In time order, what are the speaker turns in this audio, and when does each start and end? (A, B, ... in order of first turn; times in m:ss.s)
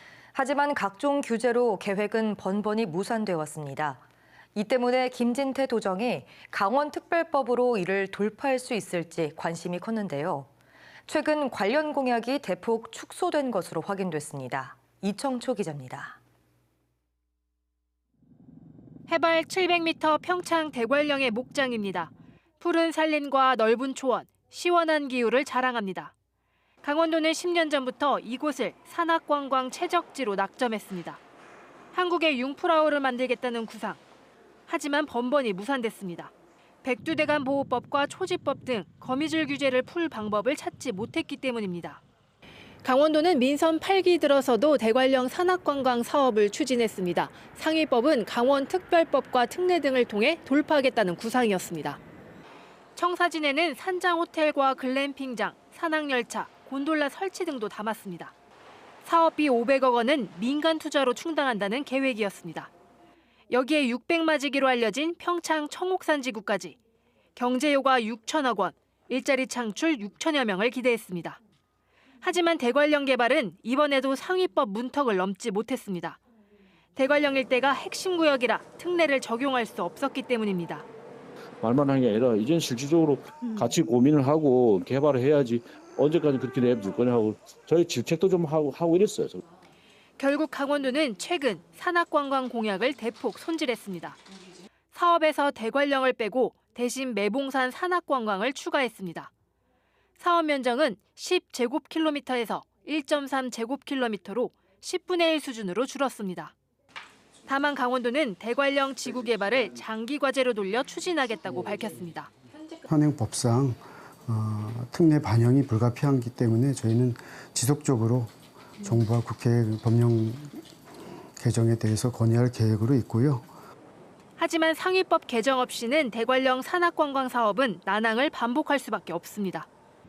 0:00.3-0:04.0 A
0:04.5-0:10.5 A
0:11.1-0:16.2 A
0:19.1-0:26.1 B
0:26.8-0:31.2 B
0:31.9-0:34.0 B
0:34.7-0:36.3 B
0:36.8-0:42.0 B
0:42.8-0:52.0 B
0:53.0-0:58.3 B
0:59.0-1:02.7 B
1:03.5-1:06.8 B
1:07.4-1:11.4 B
1:12.2-1:16.2 B
1:17.0-1:20.8 B
1:21.6-1:29.4 C
1:30.2-1:34.2 B
1:34.9-1:39.3 B
1:40.2-1:46.5 B
1:47.5-1:52.3 B
1:52.8-2:00.6 D
2:01.4-2:03.5 D
2:04.4-2:09.7 B